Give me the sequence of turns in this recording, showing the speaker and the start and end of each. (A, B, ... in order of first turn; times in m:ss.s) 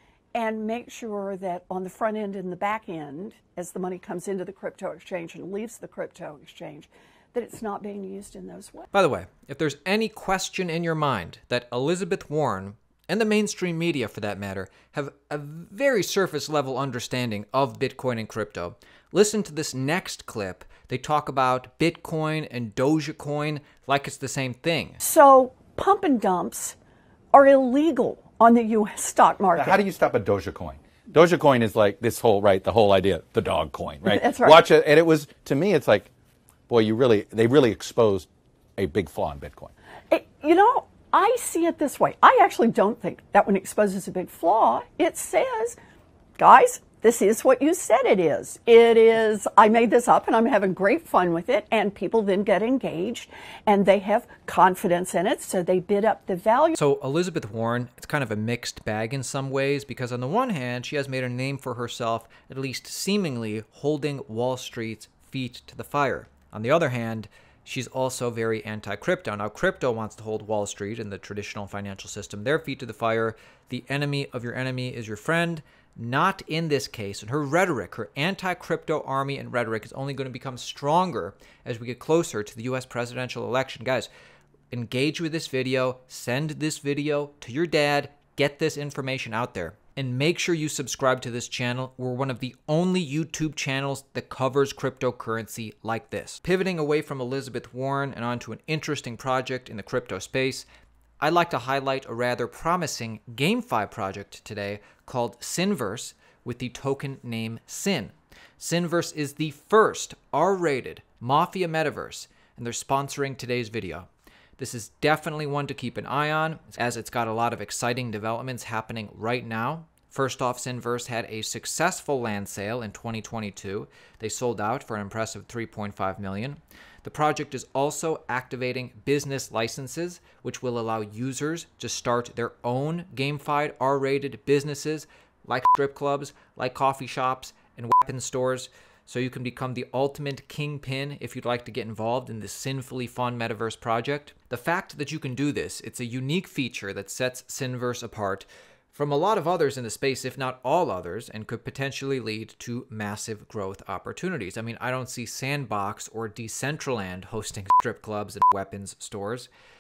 0:00.3-0:08.9 A
0:08.9-0:25.0 B
0:25.0-0:26.8 A
0:27.3-0:29.8 A
0:29.5-0:36.1 C
0:34.0-0:34.6 A
0:36.7-0:39.7 C
0:40.1-0:45.8 A
0:46.4-0:56.8 A
0:56.8-1:24.1 B
1:24.7-1:40.6 B
1:41.2-2:39.5 B